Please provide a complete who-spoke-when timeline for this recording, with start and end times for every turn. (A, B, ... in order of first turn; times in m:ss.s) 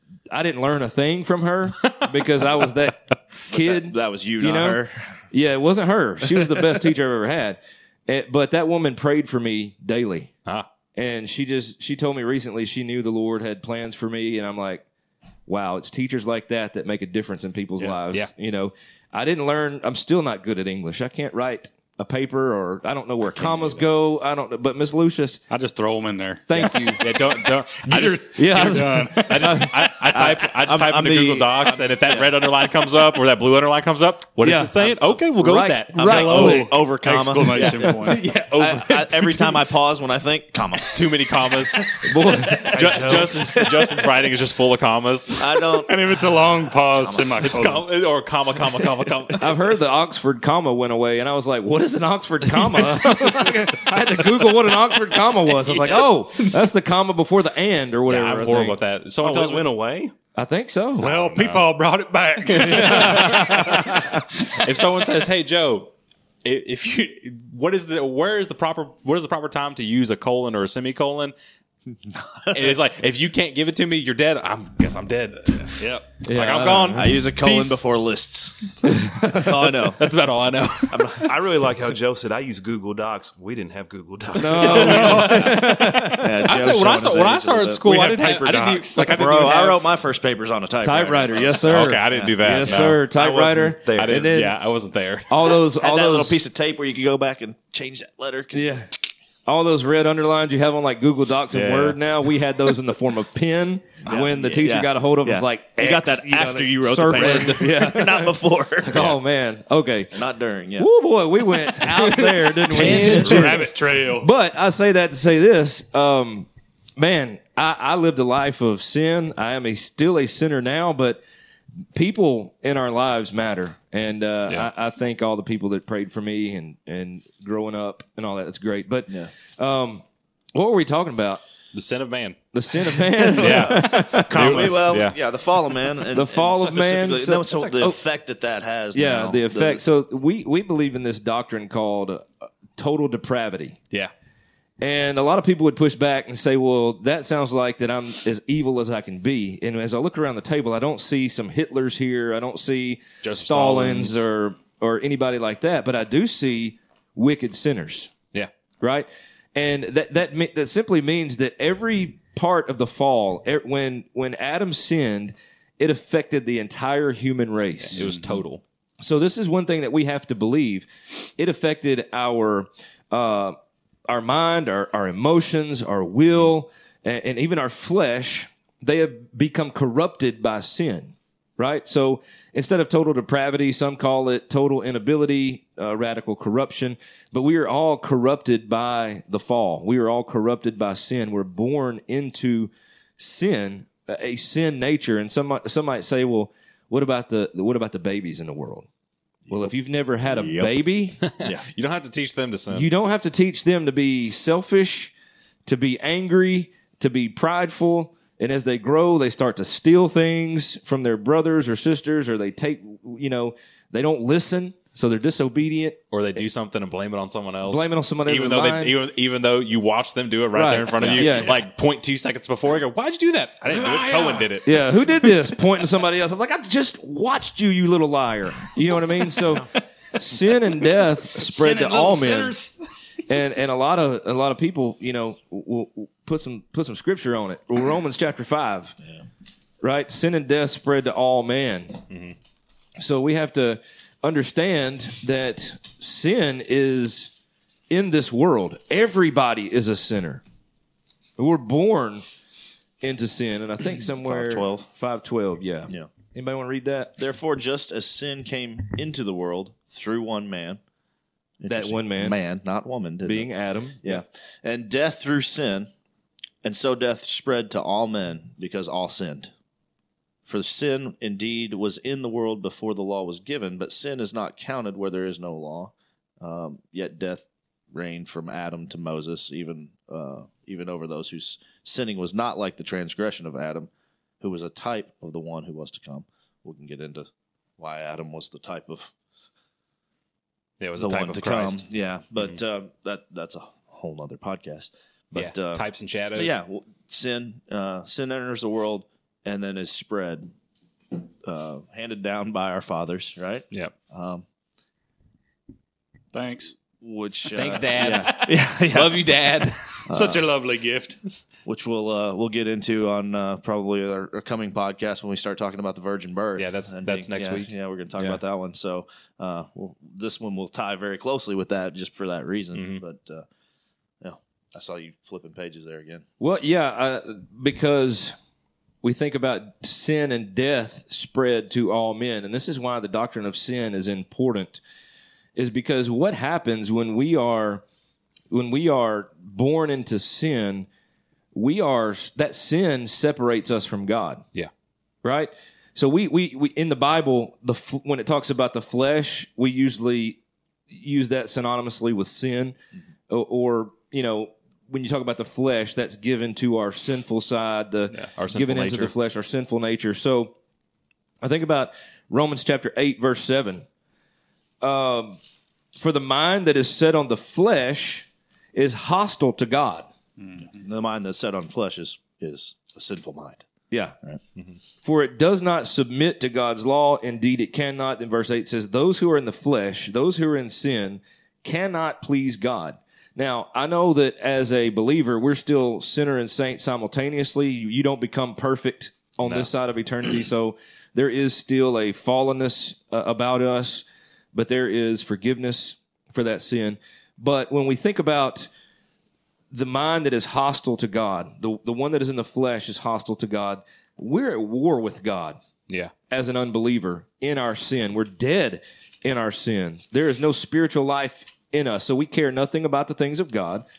0:00.3-0:10.3 A
0:03.5-0:05.2 B
0:11.0-0:14.8 A
0:15.5-0:25.4 A
0:25.5-0:27.0 C
0:26.5-0:27.0 A
0:26.6-0:36.7 D
0:27.8-0:29.6 C
0:28.3-0:29.9 A
0:30.1-0:32.3 B
0:34.4-0:36.6 A
0:36.0-0:41.0 B
0:36.0-0:38.2 C
0:37.5-0:39.7 D
0:40.8-0:45.6 D
0:42.0-0:42.7 A
0:42.5-0:43.0 B
0:42.8-0:43.3 C
0:43.6-0:44.0 B
0:45.4-0:46.0 B
0:45.7-0:47.9 C
0:46.7-0:47.5 B
0:47.4-0:49.6 D
0:49.4-0:58.8 A
0:53.8-0:54.1 D
0:58.1-0:59.7 D
0:59.2-1:00.1 E
1:00.4-1:01.1 A
1:01.0-1:01.8 D
1:01.0-1:03.9 C
1:02.3-1:05.9 D
1:02.6-1:04.2 A
1:06.4-1:11.3 D
1:12.1-1:12.6 B
1:12.5-1:17.8 D
1:15.8-1:16.1 C
1:16.2-1:17.2 A
1:16.9-1:20.1 B
1:18.9-1:19.6 A
1:19.8-1:21.3 D
1:20.9-1:21.3 B
1:21.2-1:25.3 E
1:24.3-1:26.5 A
1:24.5-1:29.9 D
1:24.5-1:27.9 B
1:27.9-1:29.1 E
1:28.3-1:28.9 C
1:29.0-1:32.6 B
1:30.8-1:34.6 A
1:31.6-1:33.0 D
1:33.1-1:34.3 E
1:33.9-1:35.6 D
1:35.3-1:36.4 A
1:35.8-1:38.7 B
1:38.5-1:38.9 A
1:39.5-1:50.2 A
1:41.5-1:42.0 D
1:44.1-1:49.0 B
1:48.9-1:49.2 D
1:50.1-1:50.9 B
1:50.8-2:01.2 A
1:51.8-1:53.6 B
1:52.6-1:54.3 C
1:52.7-1:53.5 D
2:01.9-2:11.4 A
2:11.7-2:12.4 D
2:12.5-2:14.8 A
2:13.2-2:15.2 D
2:13.3-2:19.8 B
2:16.1-2:18.0 A
2:18.9-2:23.8 A
2:24.8-2:38.1 A
2:33.2-2:34.3 D
2:38.8-2:48.1 A
2:47.9-2:48.6 D
2:49.0-2:53.6 A
2:54.1-3:18.9 A
3:19.5-3:21.2 A
3:20.3-3:20.8 B
3:21.2-3:22.9 D
3:22.7-3:25.1 A
3:25.7-3:36.4 A
3:36.1-3:44.8 D
3:37.6-3:38.9 A
3:40.5-3:41.6 A
3:43.7-3:44.6 C
3:44.6-3:52.6 A
3:51.4-3:52.7 C
3:53.3-3:59.0 A
3:59.8-4:02.0 A
4:02.1-4:02.4 D
4:03.0-4:07.3 A
4:07.9-4:10.4 A
4:11.4-4:12.2 A
4:13.0-4:17.2 A
4:14.2-4:14.9 B
4:17.2-4:20.8 B
4:21.6-4:23.5 B
4:21.7-4:22.4 A
4:23.2-4:24.2 A
4:24.0-4:25.9 B
4:26.6-4:29.5 B
4:30.5-4:43.9 B
4:44.4-4:49.1 B
4:50.8-4:51.9 D
4:51.0-4:55.8 B
4:55.4-4:56.6 D
4:56.4-5:00.5 B
5:01.4-5:04.5 B
5:06.3-5:06.7 C
5:07.0-5:09.3 B
5:07.5-5:10.1 D
5:10.1-5:11.2 C
5:10.1-5:10.4 B
5:11.7-5:23.4 B
5:16.6-5:17.7 D
5:18.2-5:18.4 A
5:22.8-5:23.0 D
5:24.2-5:26.3 B
5:26.4-5:28.3 A
5:29.0-5:34.8 A
5:35.6-5:37.8 A
5:38.5-5:40.9 A
5:41.5-5:44.4 A
5:45.2-5:52.8 A
5:53.3-6:00.6 A
5:58.1-5:59.1 D
6:01.4-6:03.8 A
6:04.8-6:05.4 A
6:06.0-6:10.1 A
6:10.4-6:10.7 C
6:10.6-6:13.7 B
6:13.9-6:14.2 A
6:15.0-6:38.7 A
6:39.7-6:45.6 A
6:46.3-6:53.8 A